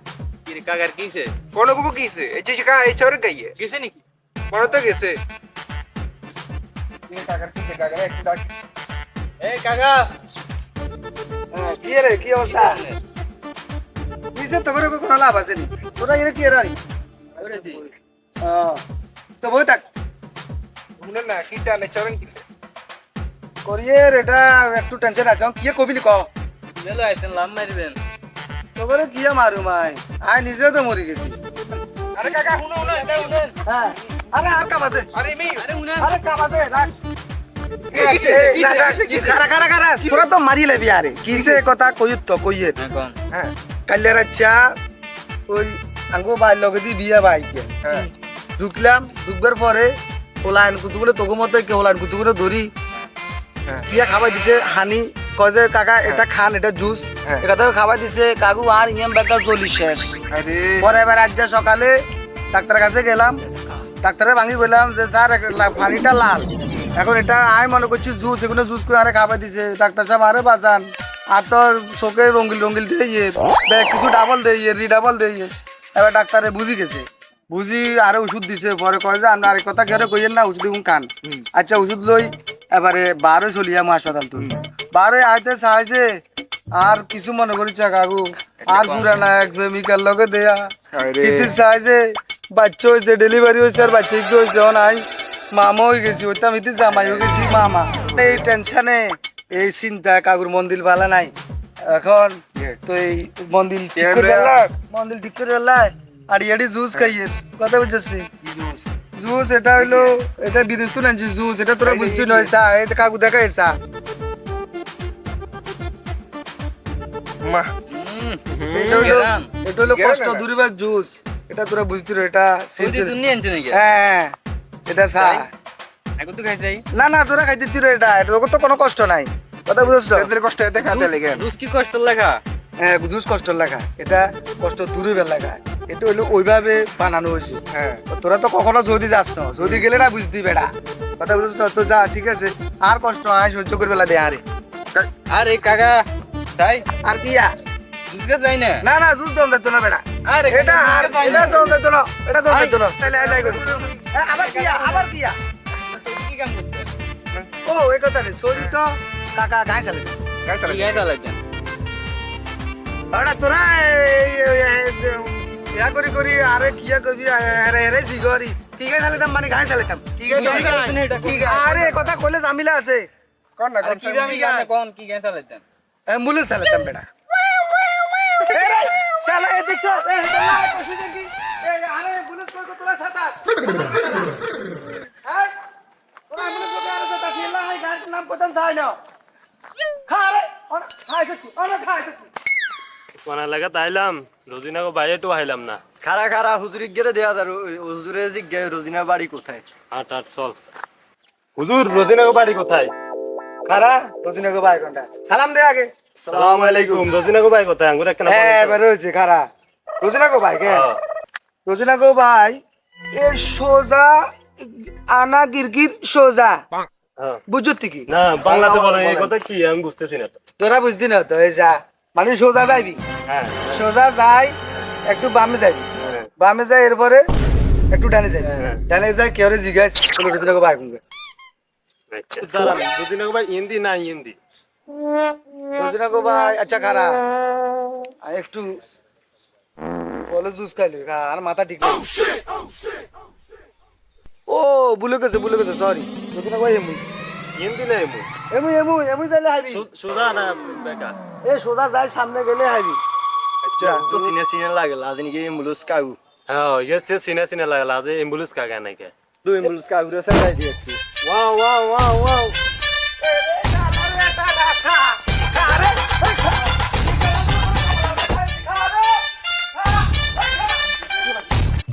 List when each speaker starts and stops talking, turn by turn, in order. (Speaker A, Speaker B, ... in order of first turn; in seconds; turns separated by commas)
Speaker A: 0.5-1.4, Speaker B: 1.5-3.5, Speaker A: 3.6-4.0, Speaker B: 4.5-5.2, Speaker B: 7.1-8.5, Speaker A: 9.4-10.1, Speaker C: 11.5-12.8, Speaker A: 12.5-13.0, Speaker C: 14.3-16.8, Speaker A: 17.4-17.9, Speaker C: 18.4-18.8, Speaker C: 19.4-19.8, Speaker B: 21.0-22.4, Speaker C: 23.6-26.3, Speaker A: 26.8-28.0, Speaker C: 28.8-31.4, Speaker B: 32.2-33.1, Speaker A: 32.2-33.5, Speaker C: 33.7-35.1, Speaker B: 35.1-35.6, Speaker A: 35.6-36.1, Speaker C: 36.0-36.9, Speaker B: 37.9-39.5, Speaker C: 37.9-42.8, Speaker B: 41.3-41.6, Speaker A: 42.8-43.2, Speaker C: 43.9-44.8, Speaker C: 45.5-47.8, Speaker C: 48.6-52.7, Speaker C: 53.9-60.1, Speaker B: 60.3-60.9, Speaker C: 60.8-62.0, Speaker C: 62.5-63.4, Speaker C: 64.0-86.2, Speaker C: 86.8-90.7, Speaker A: 88.6-89.1, Speaker B: 90.9-91.5, Speaker C: 91.2-101.3, Speaker C: 101.8-108.3, Speaker B: 104.0-104.7, Speaker B: 108.5-108.8, Speaker C: 109.2-113.8, Speaker B: 109.8-110.1, Speaker B: 111.8-112.5, Speaker B: 117.4-117.7, Speaker A: 117.9-118.4, Speaker B: 118.5-119.2, Speaker C: 118.7-123.2, Speaker A: 119.0-119.5, Speaker B: 119.9-120.5, Speaker A: 122.8-123.8, Speaker C: 123.7-124.4, Speaker C: 124.9-125.5, Speaker A: 125.2-125.5, Speaker A: 126.2-126.8, Speaker C: 126.9-130.3, Speaker B: 130.2-131.4, Speaker A: 130.8-132.4, Speaker C: 132.8-144.4, Speaker B: 137.7-138.0, Speaker A: 145.3-146.1, Speaker A: 146.6-146.9, Speaker C: 147.0-147.5, Speaker A: 148.1-148.8, Speaker C: 148.8-155.4, Speaker A: 150.3-151.7, Speaker A: 152.5-155.1, Speaker A: 155.8-156.9, Speaker C: 157.7-160.2, Speaker B: 160.5-161.0, Speaker A: 160.7-161.4, Speaker C: 163.1-173.1, Speaker B: 170.3-171.0, Speaker A: 170.3-172.1, Speaker B: 173.6-174.3, Speaker A: 173.8-175.7, Speaker C: 174.3-174.7, Speaker C: 176.1-177.1, Speaker C: 178.4-184.4, Speaker C: 185.2-185.5, Speaker C: 186.3-189.0, Speaker C: 190.1-192.3, Speaker D: 193.3-195.8, Speaker E: 196.0-199.6, Speaker D: 199.9-200.6, Speaker D: 201.6-202.9, Speaker C: 203.7-205.9, Speaker E: 206.2-207.1, Speaker D: 206.3-208.8, Speaker C: 208.3-209.5, Speaker C: 210.0-210.9, Speaker D: 210.7-211.0, Speaker C: 211.7-212.6, Speaker C: 213.1-216.6, Speaker C: 217.5-219.3, Speaker D: 218.1-220.3, Speaker C: 220.6-223.0, Speaker D: 223.3-223.6, Speaker C: 223.7-224.6, Speaker C: 225.1-227.2, Speaker C: 227.9-231.0, Speaker D: 232.1-234.4, Speaker C: 235.8-237.2, Speaker C: 238.2-238.7, Speaker C: 240.3-242.1, Speaker C: 244.5-247.0, Speaker D: 247.6-248.3, Speaker C: 248.5-249.9, Speaker D: 249.7-251.2, Speaker C: 251.4-253.0, Speaker E: 253.8-256.2, Speaker C: 253.8-254.1, Speaker D: 256.5-259.1, Speaker E: 259.4-261.0, Speaker D: 261.2-262.6, Speaker C: 263.2-269.2, Speaker C: 269.8-271.3